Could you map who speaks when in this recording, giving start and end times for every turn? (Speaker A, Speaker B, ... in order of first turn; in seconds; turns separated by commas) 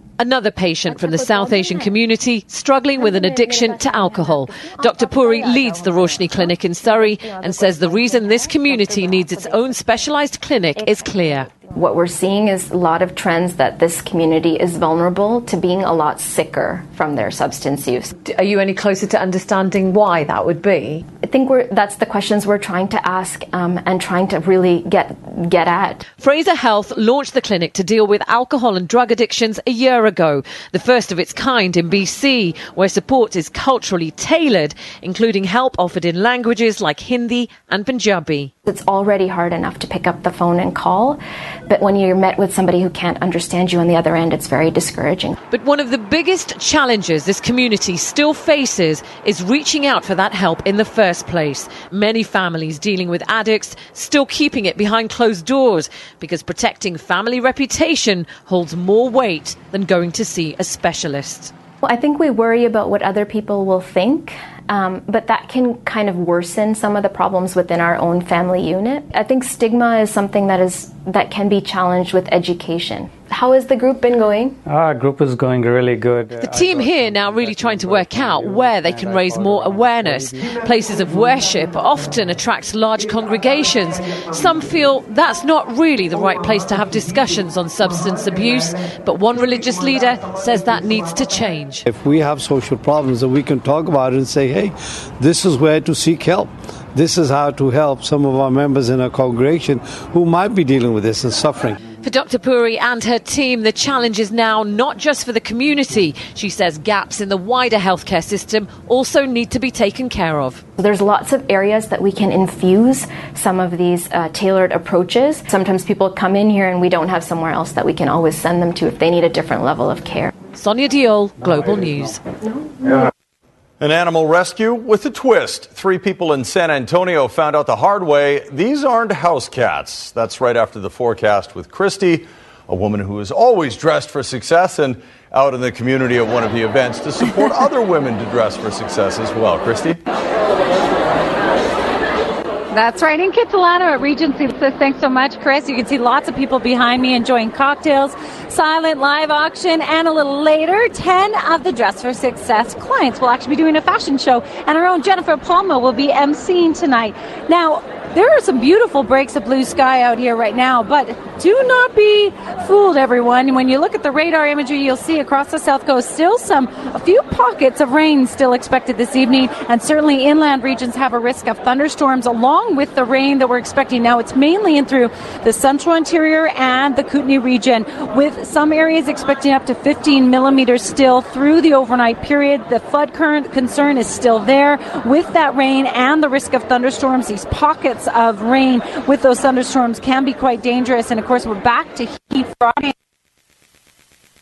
Speaker A: 0.2-11.5, Speaker B: 1.3-1.7, Speaker B: 3.0-10.0, Speaker B: 10.8-18.1, Speaker A: 18.2-21.1, Speaker B: 21.2-26.0, Speaker A: 26.2-38.5, Speaker B: 38.7-45.4, Speaker A: 45.5-61.5, Speaker B: 61.8-74.6, Speaker A: 76.4-91.8, Speaker C: 91.9-101.8, Speaker A: 102.0-110.6, Speaker B: 110.8-120.3, Speaker A: 120.5-122.2, Speaker D: 123.8-140.0, Speaker E: 142.7-192.9